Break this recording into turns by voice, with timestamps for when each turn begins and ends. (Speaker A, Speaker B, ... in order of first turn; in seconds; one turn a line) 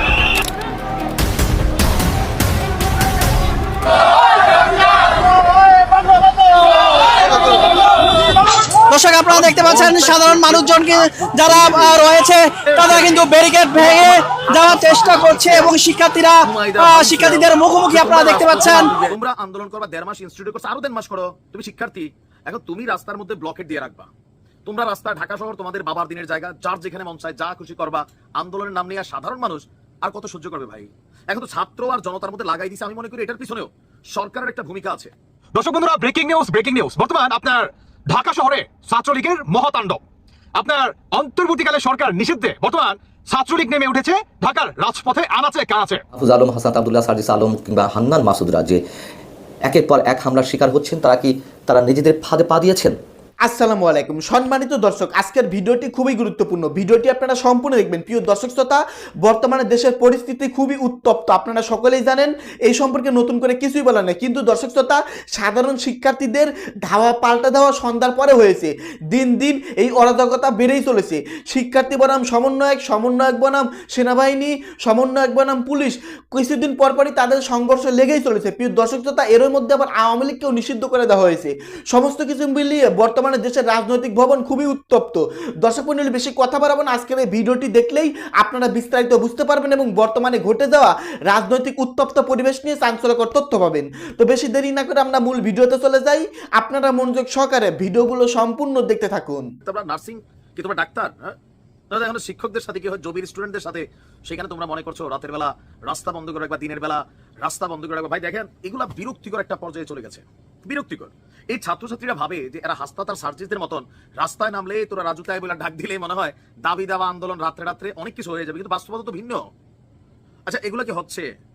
Speaker A: 8.9-18.9
Speaker B: 9.2-15.8
Speaker B: 16.4-24.1
Speaker B: 24.6-35.1
Speaker C: 35.5-40.0
Speaker C: 40.6-46.0
Speaker D: 46.1-48.8
Speaker D: 49.7-53.0
Speaker E: 53.4-99.5
Speaker B: 99.6-101.3
Speaker B: 101.9-119.4
Speaker B: 120.5-121.2